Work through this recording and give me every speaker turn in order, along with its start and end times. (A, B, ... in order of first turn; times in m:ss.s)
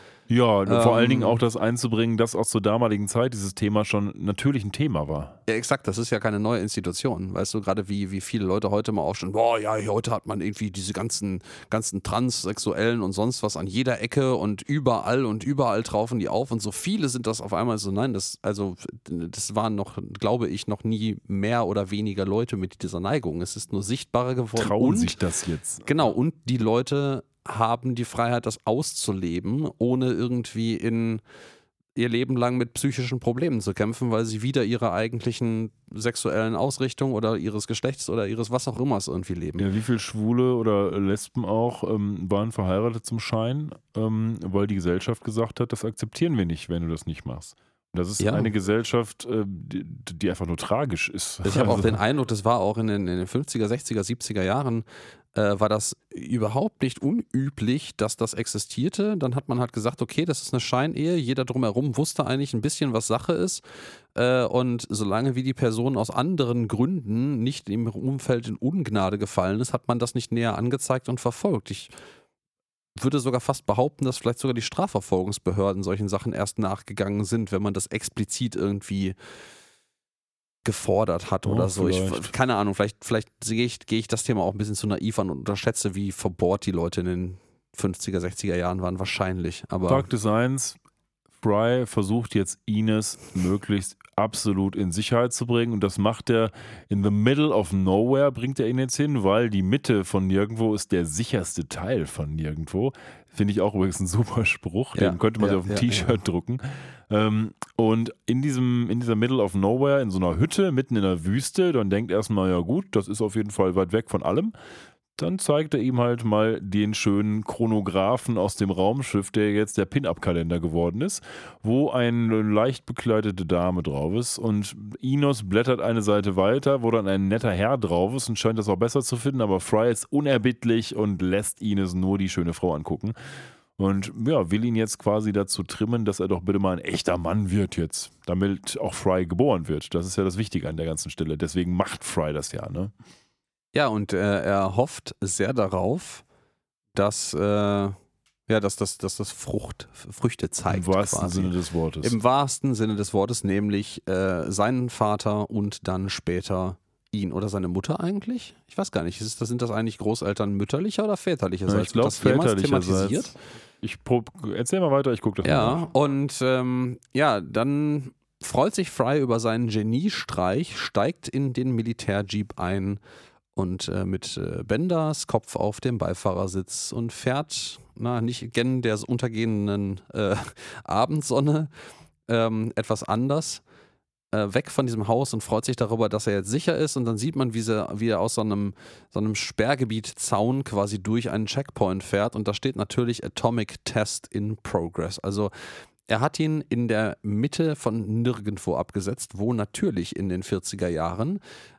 0:00.3-0:05.4 A
0:00.7-0:01.4 B
0:05.5-0:25.2 B
0:24.5-0:25.9 A
0:25.8-0:31.2 B
0:32.0-0:39.6 B
0:39.6-0:52.0 A
0:48.2-0:48.5 B
0:51.4-1:03.6 B
1:04.1-1:11.9 B
1:13.0-1:19.1 B
1:20.6-1:30.1 B
1:21.4-1:22.3 A
1:29.9-1:30.8 A
1:31.4-1:54.5 A
1:44.9-1:46.2 B
1:55.2-2:13.1 A
2:13.8-2:22.9 A
2:23.7-2:26.2 B
2:26.9-2:28.0 B
2:28.5-2:43.4 B
2:30.7-2:32.2 A
2:41.7-2:45.8 A
2:45.4-2:53.0 B
2:53.6-3:01.7 B
3:02.3-3:03.6 B
3:04.3-3:15.5 B
3:16.1-3:21.4 B